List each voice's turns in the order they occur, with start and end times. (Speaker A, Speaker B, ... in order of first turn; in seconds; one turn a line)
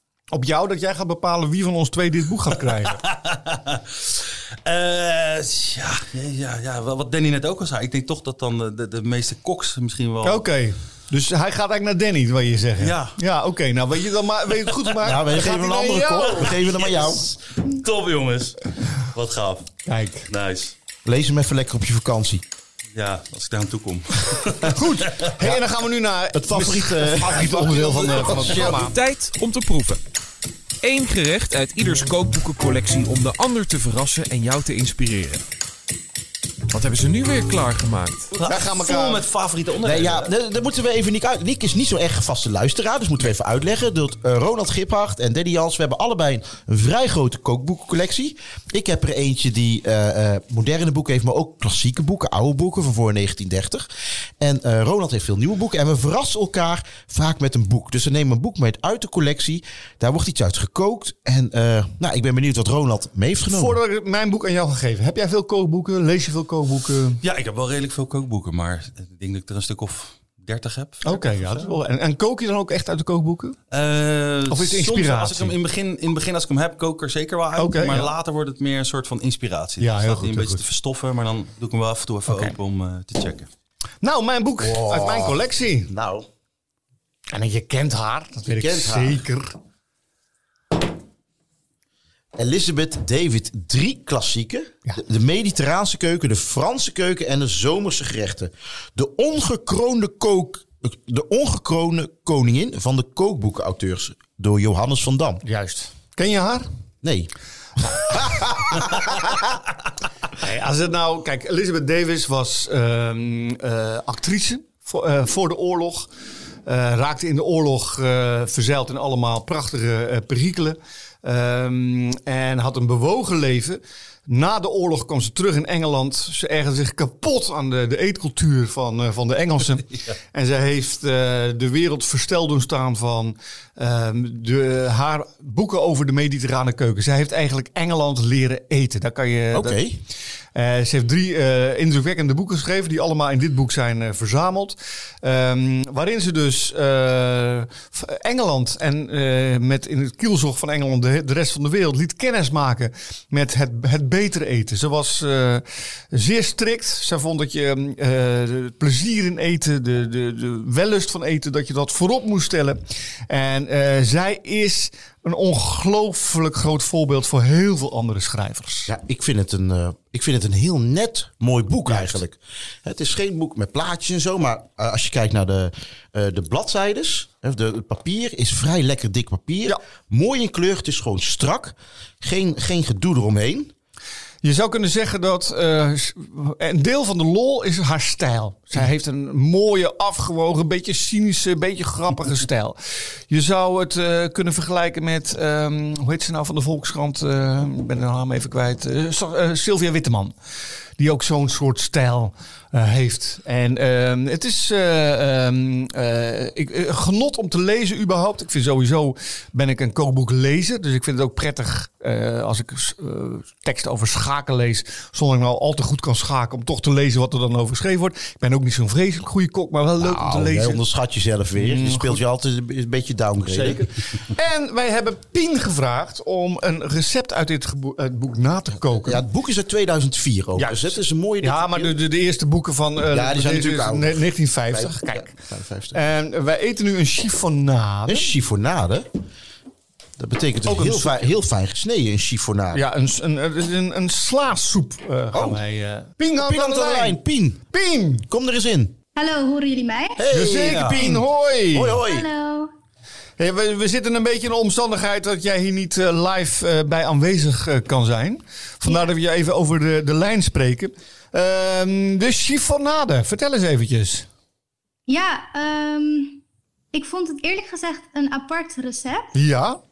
Speaker A: 0.3-3.0
Speaker B: 2.9-10.4
Speaker A: 10.2-16.5
Speaker B: 12.8-13.2
Speaker C: 15.0-17.2
Speaker B: 16.2-19.7
Speaker A: 19.9-20.3
Speaker B: 20.3-20.7
Speaker C: 21.0-22.4
Speaker B: 22.9-25.3
Speaker A: 24.6-28.9
Speaker C: 26.3-28.7
Speaker B: 27.3-28.6
Speaker D: 28.5-30.0
Speaker D: 30.8-35.4
Speaker D: 36.7-38.3
Speaker B: 38.3-40.3
Speaker A: 38.4-39.2
Speaker C: 39.8-53.9
Speaker C: 54.4-63.8
Speaker A: 63.5-67.2
Speaker B: 67.2-71.7
Speaker A: 71.0-73.6
Speaker B: 73.7-83.5
Speaker A: 74.5-75.5
Speaker A: 77.6-78.1
Speaker A: 79.8-80.6
Speaker A: 82.3-82.5
Speaker A: 84.0-85.9
Speaker C: 84.6-86.3
Speaker A: 87.3-89.5
Speaker C: 88.5-89.2
Speaker C: 92.3-105.4
Speaker A: 105.4-106.7
Speaker C: 107.0-107.3
Speaker C: 107.9-109.4
Speaker A: 108.1-109.1
Speaker A: 110.4-116.1
Speaker A: 116.7-139.8
Speaker C: 139.5-140.0
Speaker A: 140.5-168.9
Speaker C: 168.9-183.7
Speaker A: 171.9-172.2
Speaker A: 184.4-192.8
Speaker A: 193.3-200.3
Speaker A: 201.0-220.8
Speaker C: 220.0-223.9
Speaker A: 221.6-222.2
Speaker A: 223.4-229.2
Speaker C: 229.0-231.9
Speaker A: 230.6-235.3
Speaker C: 233.1-236.0
Speaker A: 235.9-238.3
Speaker C: 238.1-239.1
Speaker C: 240.2-242.8
Speaker A: 240.6-241.3
Speaker A: 242.7-248.3
Speaker C: 245.3-245.6
Speaker C: 246.3-247.6
Speaker C: 248.3-249.0
Speaker E: 249.1-250.2
Speaker C: 250.2-252.3
Speaker A: 250.3-252.0
Speaker B: 250.3-251.1
Speaker E: 252.0-252.7
Speaker A: 253.4-264.3
Speaker E: 265.1-266.4
Speaker E: 266.9-269.3
Speaker A: 269.3-269.8